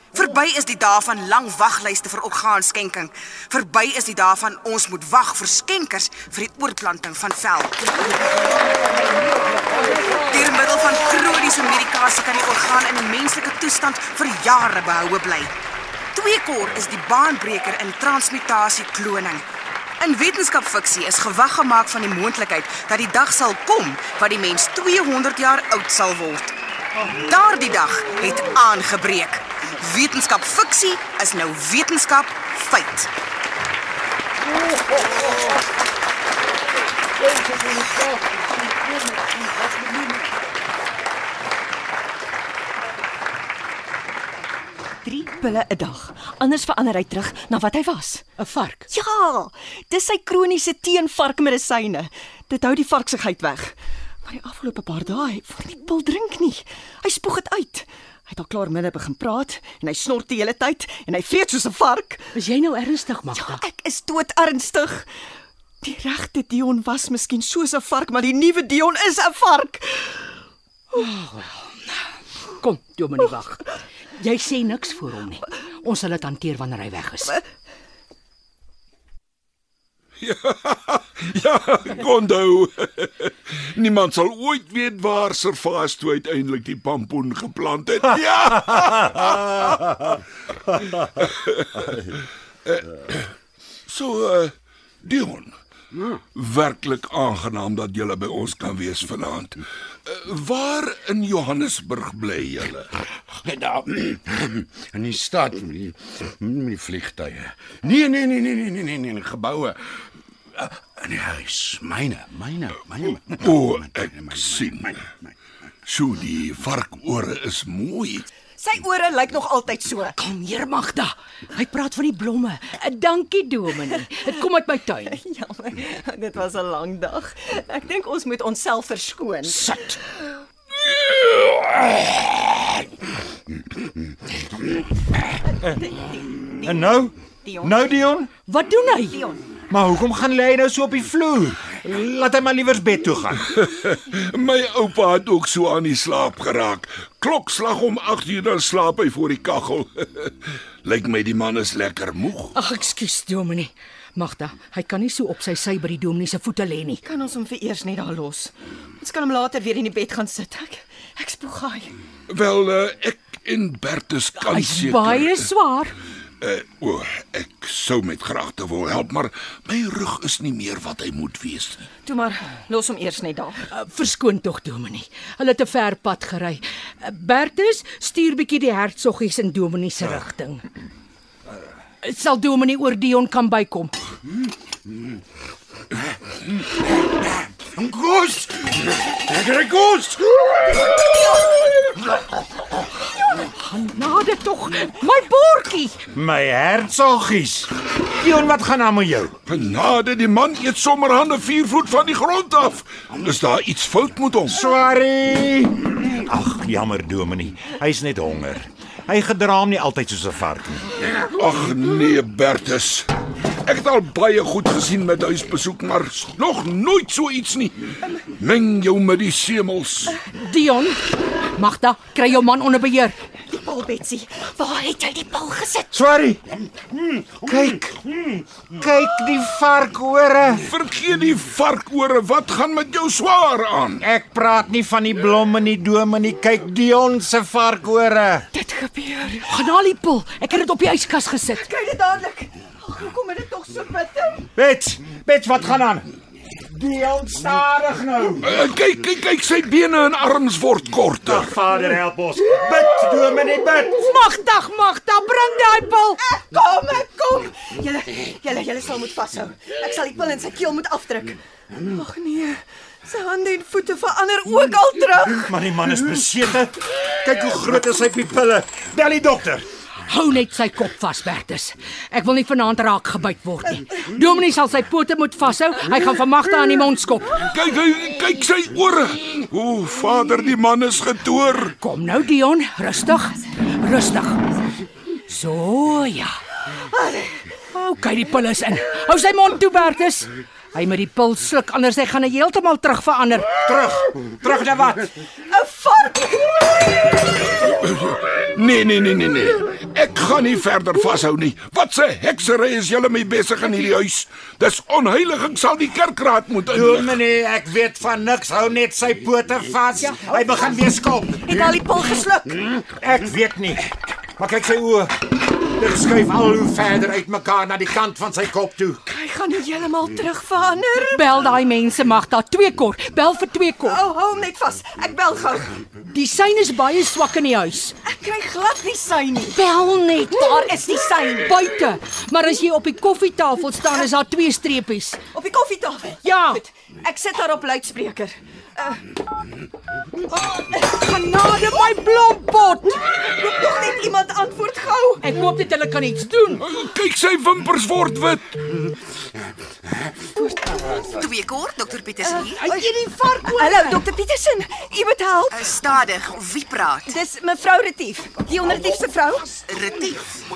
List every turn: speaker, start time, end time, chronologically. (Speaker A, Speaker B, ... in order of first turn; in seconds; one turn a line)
Speaker A: 0.1-7.8
Speaker A: 10.2-15.5
Speaker A: 16.1-19.4
Speaker A: 20.0-26.5
Speaker A: 27.1-33.1
Speaker B: 34.7-35.4
Speaker B: 37.3-40.2
Speaker C: 45.0-48.3
Speaker D: 48.4-48.9
Speaker C: 48.9-62.3
Speaker D: 62.4-63.6
Speaker C: 63.4-65.1
Speaker C: 65.8-70.4
Speaker D: 70.9-71.7
Speaker D: 72.6-77.4
Speaker E: 80.2-90.1
Speaker B: 88.7-90.0
Speaker E: 91.2-92.1
Speaker E: 92.7-93.3
Speaker E: 93.9-95.6
Speaker F: 95.9-96.2
Speaker E: 96.3-102.9
Speaker F: 103.5-109.8
Speaker F: 110.6-115.0
Speaker E: 113.4-114.9
Speaker E: 115.9-118.3
Speaker C: 118.6-120.2
Speaker D: 120.2-125.2
Speaker C: 125.1-129.6
Speaker D: 129.5-130.0
Speaker C: 135.7-136.9
Speaker B: 136.7-138.3
Speaker C: 137.4-137.8
Speaker D: 138.5-139.2
Speaker C: 139.0-139.4
Speaker B: 139.7-143.5
Speaker E: 143.6-152.6
Speaker D: 152.6-157.0
Speaker C: 157.1-161.9
Speaker E: 162.3-165.5
Speaker D: 164.4-165.9
Speaker E: 166.4-171.9
Speaker C: 172.1-173.7
Speaker D: 173.7-180.6
Speaker D: 182.0-183.9
Speaker B: 187.7-190.3
Speaker D: 193.3-196.0
Speaker B: 196.1-199.4
Speaker E: 199.5-204.6
Speaker B: 204.5-210.9
Speaker E: 211.1-213.1
Speaker E: 213.7-220.2
Speaker D: 220.3-223.2
Speaker C: 223.6-225.9
Speaker B: 225.9-226.4
Speaker B: 227.4-230.7
Speaker E: 230.6-234.0
Speaker B: 234.0-238.5
Speaker C: 238.5-239.5
Speaker D: 239.5-241.6
Speaker C: 241.5-244.5
Speaker B: 244.6-246.1
Speaker B: 246.7-248.5
Speaker E: 248.4-251.5
Speaker B: 251.2-254.0
Speaker D: 254.0-256.2
Speaker C: 256.2-265.5
Speaker B: 265.3-269.7
Speaker D: 270.1-277.4
Speaker E: 277.4-281.8
Speaker D: 281.8-284.4
Speaker D: 285.3-286.4
Speaker C: 286.9-287.4
Speaker D: 287.7-293.5
Speaker B: 293.6-295.1
Speaker C: 295.5-297.1
Speaker E: 297.8-307.1
Speaker B: 306.7-311.7
Speaker C: 311.5-312.7
Speaker B: 312.9-319.0
Speaker C: 319.1-321.4
Speaker D: 321.1-324.0
Speaker C: 323.9-325.7
Speaker D: 326.1-328.0
Speaker C: 328.0-329.6
Speaker D: 329.5-335.2
Speaker C: 330.3-331.5
Speaker C: 335.3-339.0
Speaker D: 336.2-336.6
Speaker C: 340.4-341.7
Speaker D: 340.9-343.0
Speaker C: 343.1-345.3
Speaker D: 345.2-346.6
Speaker E: 346.6-348.8
Speaker C: 350.4-351.1
Speaker A: 351.1-352.6
Speaker C: 352.2-352.9
Speaker D: 352.6-354.1
Speaker C: 353.4-355.9
Speaker A: 355.5-357.2
Speaker C: 357.1-359.7
Speaker A: 359.7-360.4